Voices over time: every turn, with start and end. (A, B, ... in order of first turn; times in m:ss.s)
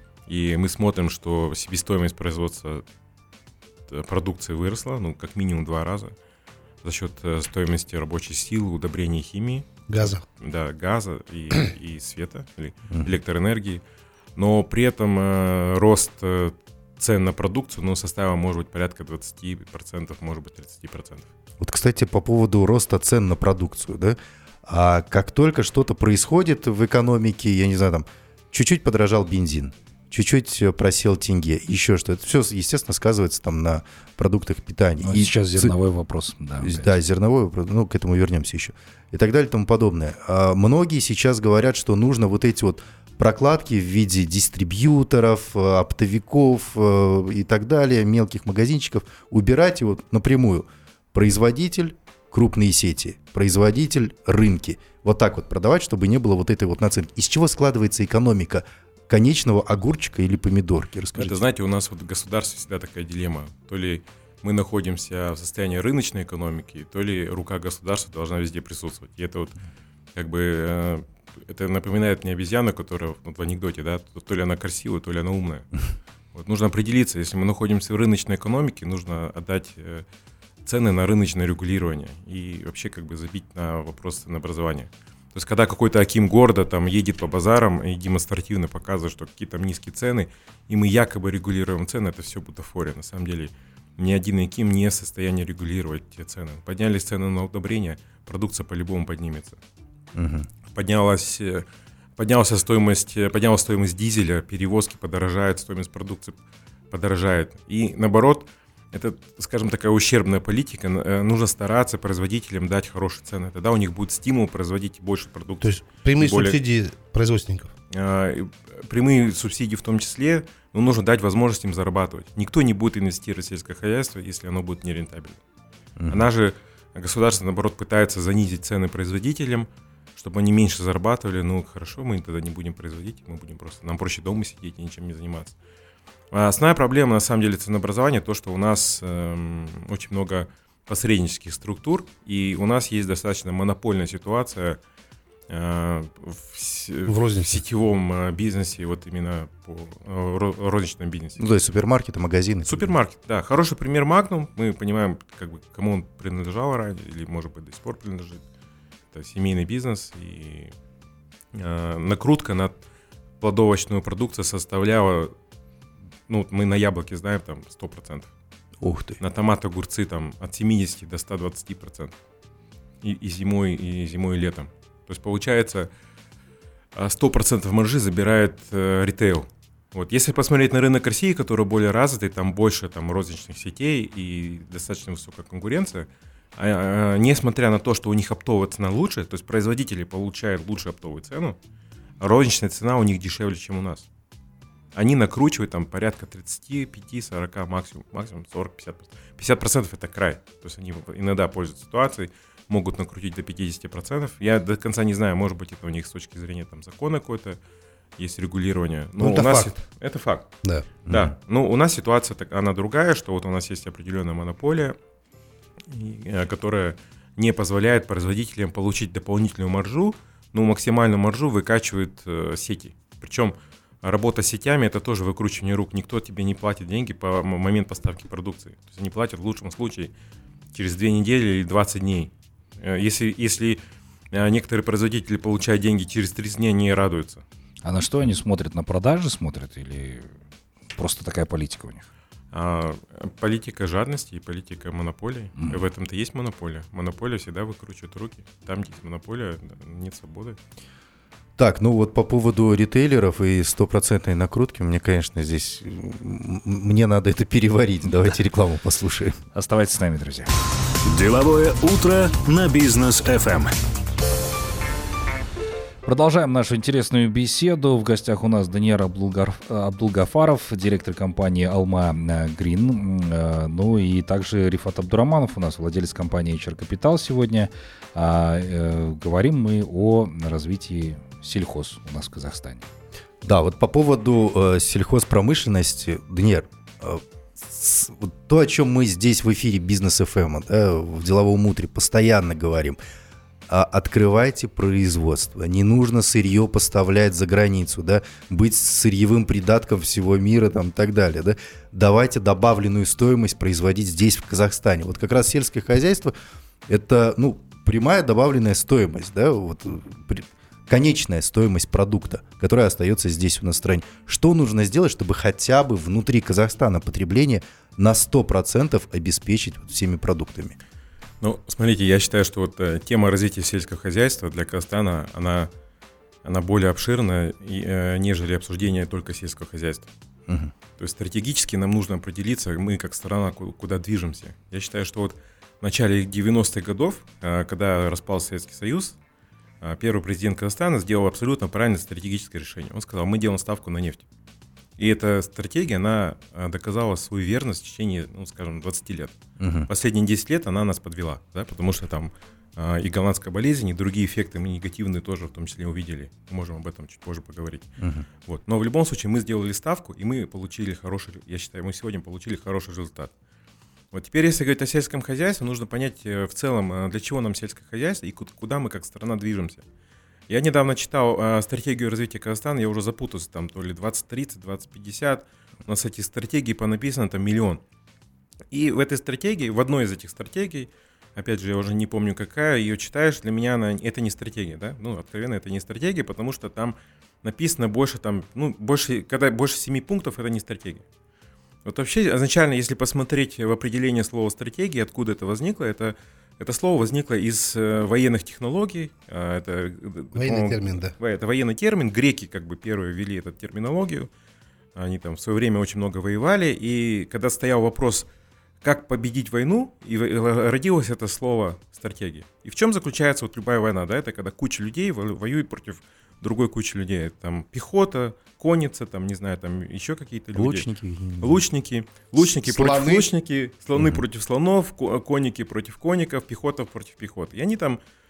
0:00.3-0:02.8 A
0:03.9-0:06.2 A
0:06.8-0:13.8 A
0:09.9-0:10.2 B
0:14.4-0:21.3 A
0:21.6-0:35.8 C
0:35.0-0:36.9 D
0:36.6-1:01.4 C
1:01.2-1:09.6 A
1:10.2-1:15.7 A
1:16.3-1:20.0 A
1:20.6-1:39.6 A
1:40.2-1:40.5 C
1:40.7-1:41.6 A
1:42.2-1:46.4 A
1:46.9-1:56.6 A
1:55.6-1:57.7 B
1:57.9-2:05.4 A
2:06.0-2:06.3 C
2:06.1-2:15.6 A
2:16.3-2:24.8 A
2:25.5-2:31.4 A
2:27.1-2:27.6 B
2:31.4-2:32.9 C
2:32.6-2:38.4 A
2:39.1-2:40.7 A
2:41.5-2:42.8 A
2:43.4-2:45.3 A
2:46.3-2:48.3 A
2:48.8-2:49.2 C
2:49.2-2:52.1 A
2:53.0-2:55.9 A
2:57.0-3:11.6 A
3:12.2-3:14.1 A
3:15.0-3:27.6 A
3:28.2-3:30.5 A
3:29.2-3:29.8 B
3:31.1-3:35.0 A
3:35.9-3:50.1 A
3:50.7-3:57.4 A
3:57.8-4:00.3 D
4:01.0-4:02.1 D
4:02.5-4:10.6 A
4:11.6-4:19.4 C
4:19.5-4:20.5 D
4:21.1-4:23.7 E
4:26.0-4:42.9 D
4:43.4-4:53.0 C
4:53.7-5:06.3 C
5:06.9-5:20.8 C
5:21.4-5:25.7 A
5:26.4-5:30.1 A
5:30.5-5:30.7 C
5:31.0-5:39.2 A
5:39.8-5:44.2 A
5:45.0-5:49.4 A
5:49.6-5:49.9 C
5:49.9-5:57.9 A
5:58.0-5:58.3 C
5:58.5-6:03.3 A
6:04.1-6:09.8 A
6:10.5-6:17.8 A
6:18.7-6:31.0 A
6:31.8-6:44.3 A
6:40.4-6:41.1 B
6:45.0-6:48.3 A
6:48.8-7:00.9 A
7:00.5-7:01.6 C
7:01.4-7:08.0 A
7:02.6-7:03.3 B
7:04.0-7:04.2 C